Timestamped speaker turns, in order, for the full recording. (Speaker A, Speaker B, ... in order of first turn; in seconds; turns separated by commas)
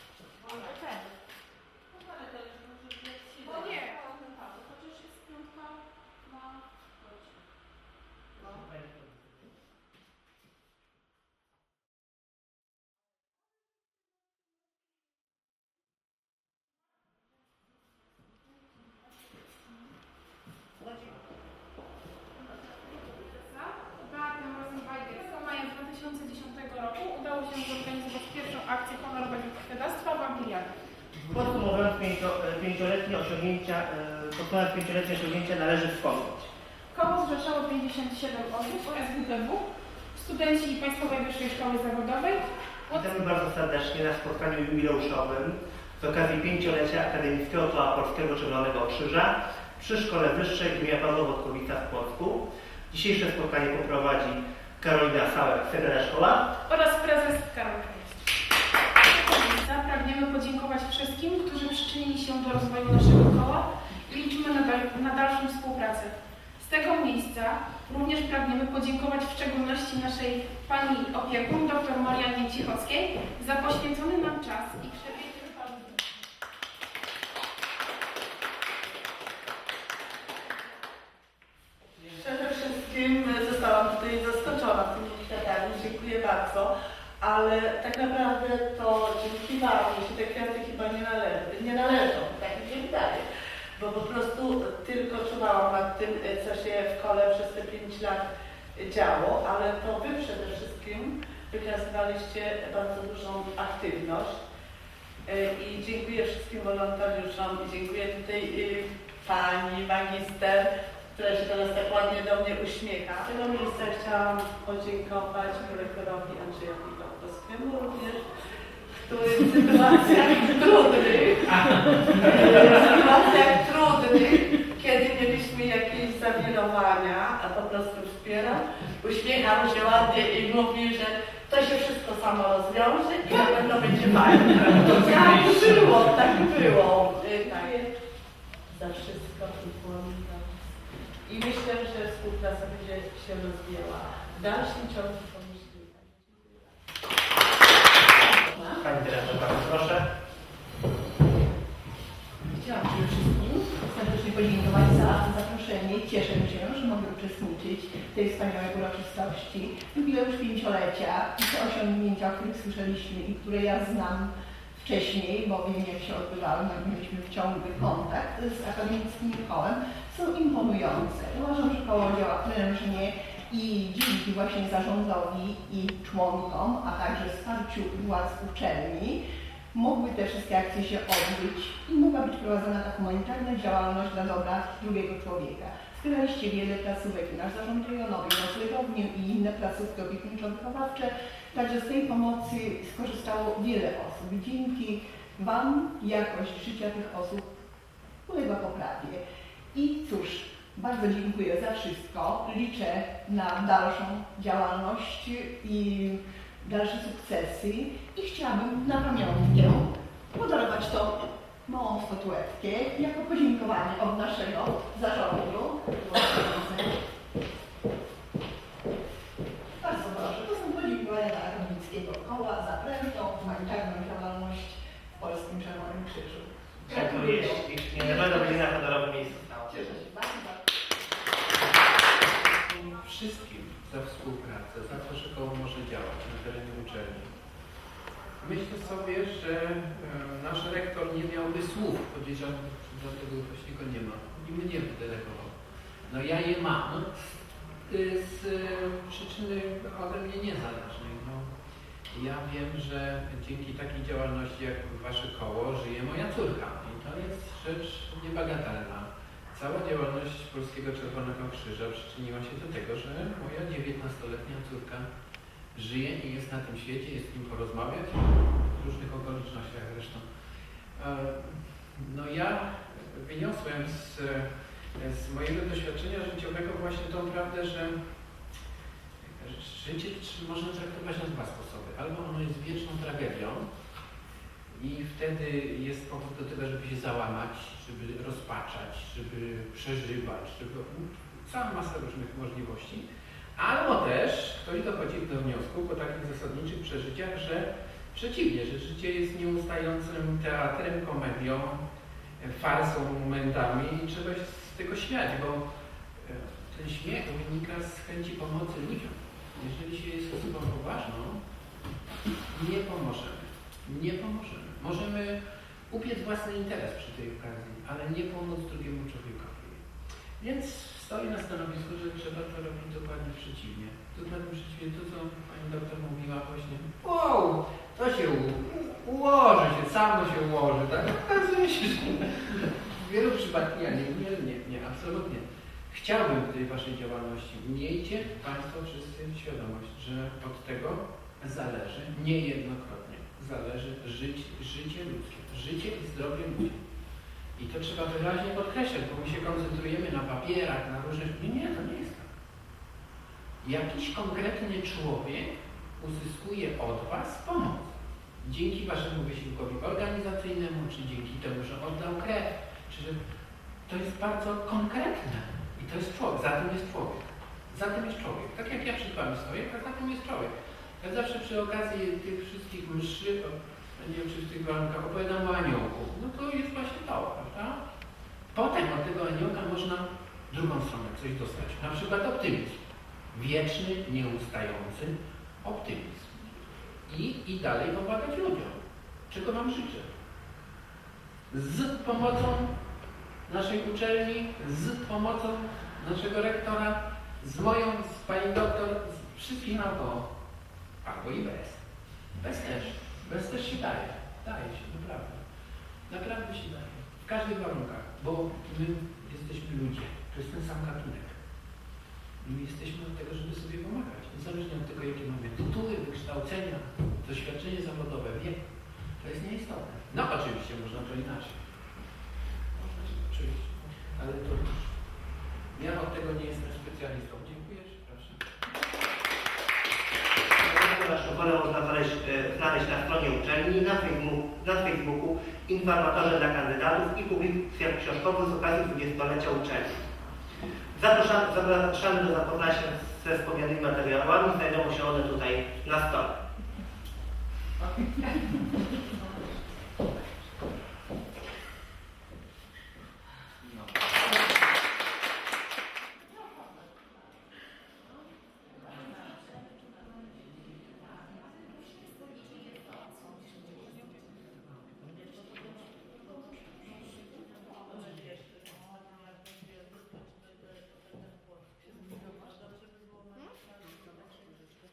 Speaker A: 0.4-1.0, Speaker A: 2.9-4.5, Speaker B: 3.4-4.1, Speaker B: 4.7-6.5, Speaker C: 8.4-9.3, Speaker B: 23.1-30.7, Speaker C: 31.2-36.5, Speaker B: 36.9-43.0, Speaker C: 42.9-56.4, Speaker B: 56.7-58.2, Speaker B: 59.1-75.8, Speaker A: 82.0-93.2, Speaker A: 93.8-104.4, Speaker A: 105.2-118.3, Speaker A: 118.9-137.9, Speaker A: 138.7-140.5, Speaker A: 141.2-146.7, Speaker D: 148.2-148.8, Speaker C: 148.8-150.1, Speaker D: 152.5-179.2, Speaker D: 179.7-197.5, Speaker D: 198.2-199.2, Speaker D: 199.7-216.9, Speaker D: 219.8-228.7, Speaker C: 226.9-229.7, Speaker D: 229.7-230.6, Speaker E: 232.2-237.3, Speaker E: 238.4-245.5, Speaker E: 246.1-251.5, Speaker E: 252.1-265.1, Speaker E: 265.7-270.2, Speaker E: 270.9-277.9, Speaker E: 279.2-283.7, Speaker E: 284.7-301.8, Speaker E: 302.4-305.6, Speaker E: 306.2-311.4, Speaker E: 312.5-319.8, Speaker E: 320.4-346.8, Speaker E: 347.6-352.3, Speaker E: 353.6-363.2, Speaker E: 363.9-377.8, Speaker E: 378.5-390.1, Speaker E: 391.5-392.7, Speaker E: 393.4-400.3, Speaker E: 401.0-401.8, Speaker E: 402.4-405.4, Speaker E: 406.1-411.4, Speaker E: 412.4-418.6, Speaker E: 419.2-421.6, Speaker E: 422.8-424.9, Speaker E: 425.7-428.4, Speaker C: 430.6-440.1, Speaker C: 440.9-446.3, Speaker A: 467.9-470.6, Speaker A: 472.0-472.9, Speaker A: 473.4-474.4